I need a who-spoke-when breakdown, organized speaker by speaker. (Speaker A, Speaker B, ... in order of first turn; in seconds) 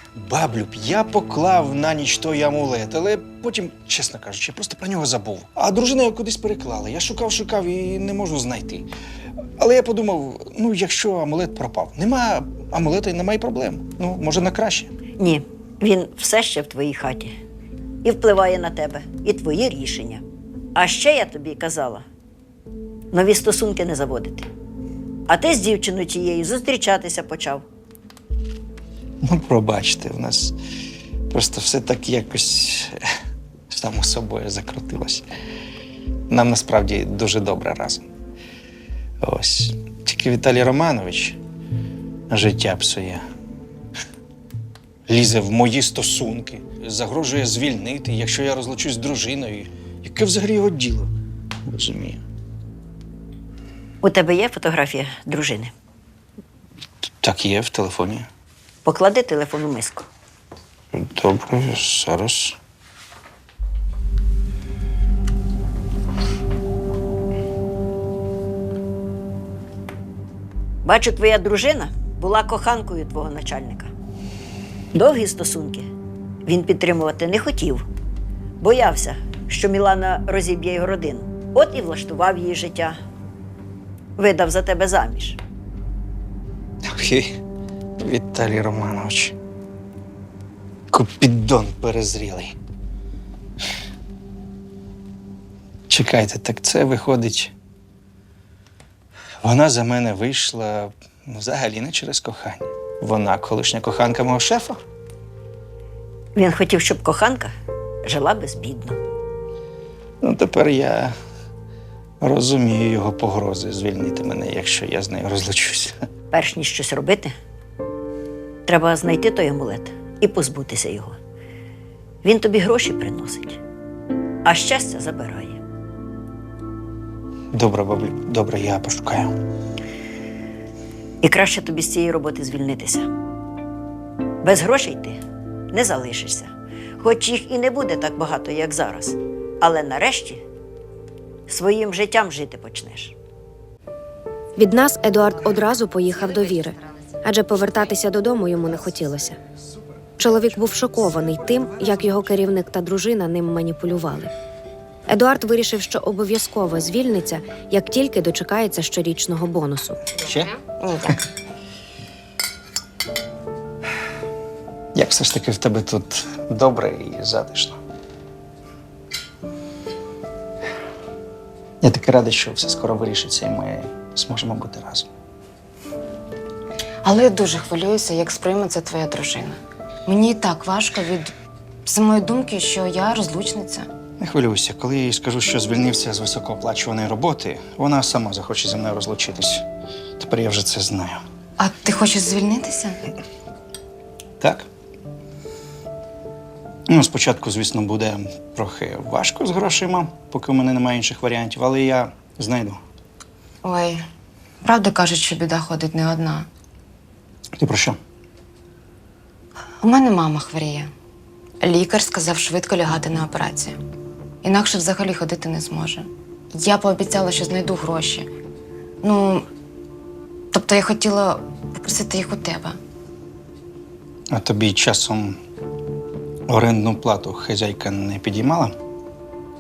Speaker A: 0.2-8.9, 9.6-14.9, 29.2-30.5, 31.3-33.0, 33.7-35.2, 36.3-38.0, 39.2-41.4, 42.3-43.2, 45.1-51.1, 51.6-52.2, 57.2-58.3, 60.9-62.6, 86.8-87.4, 88.0-89.4, 90.9-92.5, 95.9-97.5, 99.4-104.8, 110.2-111.1, 112.2-116.0, 127.5-129.3, 160.2-160.5, 164.9-167.8, 171.8-175.1, 184.2-189.7, 190.2-191.2, 194.4-194.7, 196.9-202.8, 207.6-208.0, 224.3-225.4, 226.5-228.8
Speaker B: 15.2-17.4, 18.0-20.2, 20.8-22.1, 23.1-24.5, 25.3-27.6, 54.0-55.7, 58.9-60.1, 70.8-73.9, 74.9-75.9, 76.5-77.8, 78.6-83.0, 84.2-85.4, 106.3-107.5, 108.0-109.0, 116.3-117.3, 118.7-121.2, 122.2-123.6, 124.5-125.6, 131.2-133.1, 134.4-135.2, 135.7-140.4, 141.5-143.2
Speaker C: 144.6-149.4, 150.2-154.3, 155.1-160.0
Speaker D: 160.4-161.2, 177.0-181.3, 181.9-183.9, 191.6-193.0, 203.6-204.0, 204.6-206.5, 209.8-210.9, 211.6-213.8, 214.4-218.3, 219.0-219.5, 220.5-222.8